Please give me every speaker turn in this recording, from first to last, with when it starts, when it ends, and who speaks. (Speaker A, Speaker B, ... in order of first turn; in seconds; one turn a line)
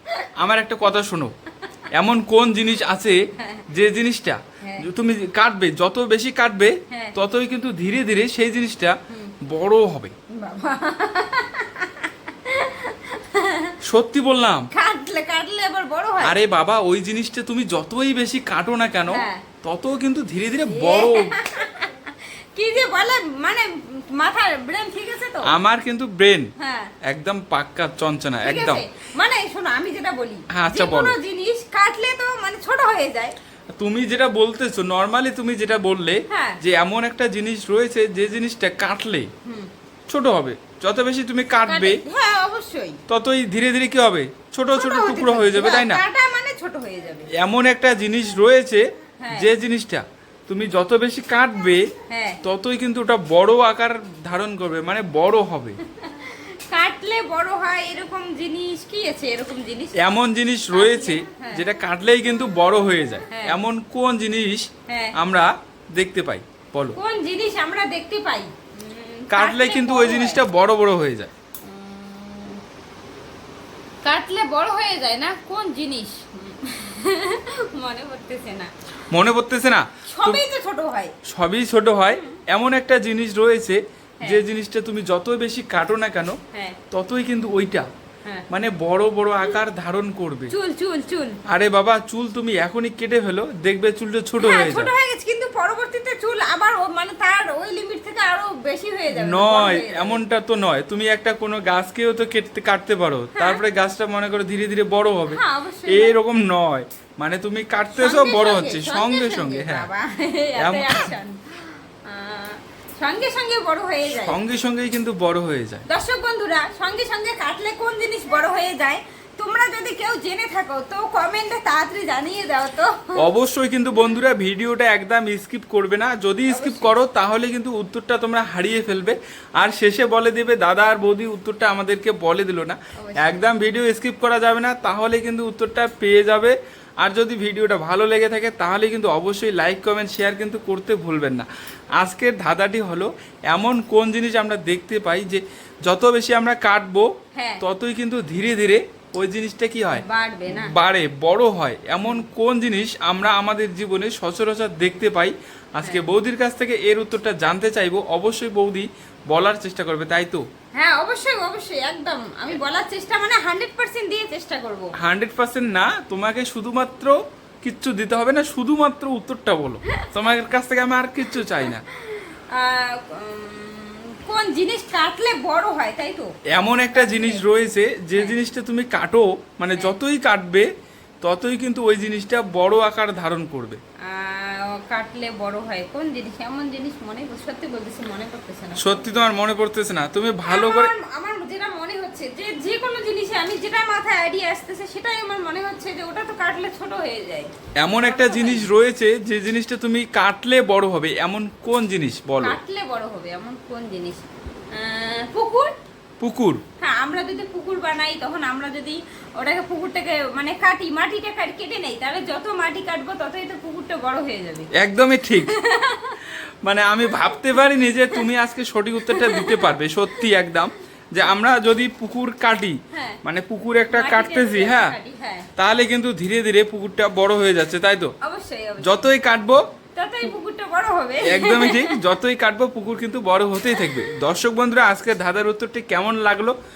Speaker A: 0.4-1.3
Speaker A: 1.9-3.2
Speaker A: 3.7-8.9
Speaker B: 4.6-4.9
Speaker B: 6.9-7.2
Speaker B: 9.1-9.3
Speaker A: 9.5-10.1
Speaker B: 10.4-13.8
Speaker A: 13.8-14.7
Speaker B: 14.7-16.4
Speaker A: 16.2-21.3
Speaker B: 19.1-19.4
Speaker B: 20.6-25.5
Speaker A: 25.4-26.5
Speaker B: 26.6-26.9
Speaker A: 27.1-28.8
Speaker B: 28.4-33.3
Speaker A: 30.5-31.2
Speaker A: 33.8-39.3
Speaker B: 36.3-36.6
Speaker B: 39.4-39.7
Speaker A: 40.1-42.0
Speaker B: 41.6-43.0
Speaker A: 43.1-46.0
Speaker B: 44.7-47.3
Speaker A: 47.3-51.8
Speaker B: 49.2-49.5
Speaker B: 52.1-52.4
Speaker A: 52.4-55.8
Speaker B: 55.8-60.0
Speaker A: 60.0-67.0
Speaker B: 60.7-61.7
Speaker B: 63.3-63.6
Speaker B: 64.9-65.1
Speaker B: 66.9-70.4
Speaker A: 69.3-71.3
Speaker B: 71.6-72.6
Speaker B: 74.0-78.7
Speaker A: 79.1-80.4
Speaker B: 80.1-81.2
Speaker A: 81.3-86.4
Speaker B: 82.1-82.4
Speaker B: 86.5-86.8
Speaker A: 86.9-87.8
Speaker A: 88.5-90.5
Speaker B: 90.5-91.4
Speaker A: 91.5-94.9
Speaker B: 94.4-100.2
Speaker A: 99.1-109.9
Speaker B: 103.3-103.6
Speaker B: 105.3-106.2
Speaker B: 108.0-114.4
Speaker A: 110.6-111.1
Speaker A: 114.2-115.8
Speaker B: 115.9-123.2
Speaker A: 123.2-141.4
Speaker B: 126.5-126.9
Speaker B: 132.9-133.4
Speaker A: 142.0-147.1
Speaker B: 147.3-147.6
Speaker A: 147.6-160.4
Speaker B: 149.9-150.7
Speaker B: 152.0-152.2
Speaker B: 160.7-164.9
Speaker A: 165.0-171.8
Speaker B: 169.9-170.3
Speaker B: 171.3-176.3
Speaker A: 176.5-180.7
Speaker B: 176.9-177.4
Speaker A: 181.2-183.8
Speaker B: 184.0-189.3
Speaker A: 188.8-190.9
Speaker B: 190.5-198.7
Speaker A: 197.8-202.6
Speaker B: 202.4-205.7
Speaker A: 206.2-206.6
Speaker B: 206.8-214.7
Speaker A: 214.7-215.5
Speaker B: 215.3-216.2
Speaker A: 216.6-224.9
Speaker B: 217.1-217.4
Speaker B: 219.1-220.3
Speaker B: 222.9-223.2
Speaker B: 223.9-225.5
Speaker A: 225.6-228.1
Speaker B: 228.2-229.1
Speaker A: 228.8-229.6
Speaker B: 229.9-232.0
Speaker A: 231.2-236.5
Speaker B: 233.7-234.1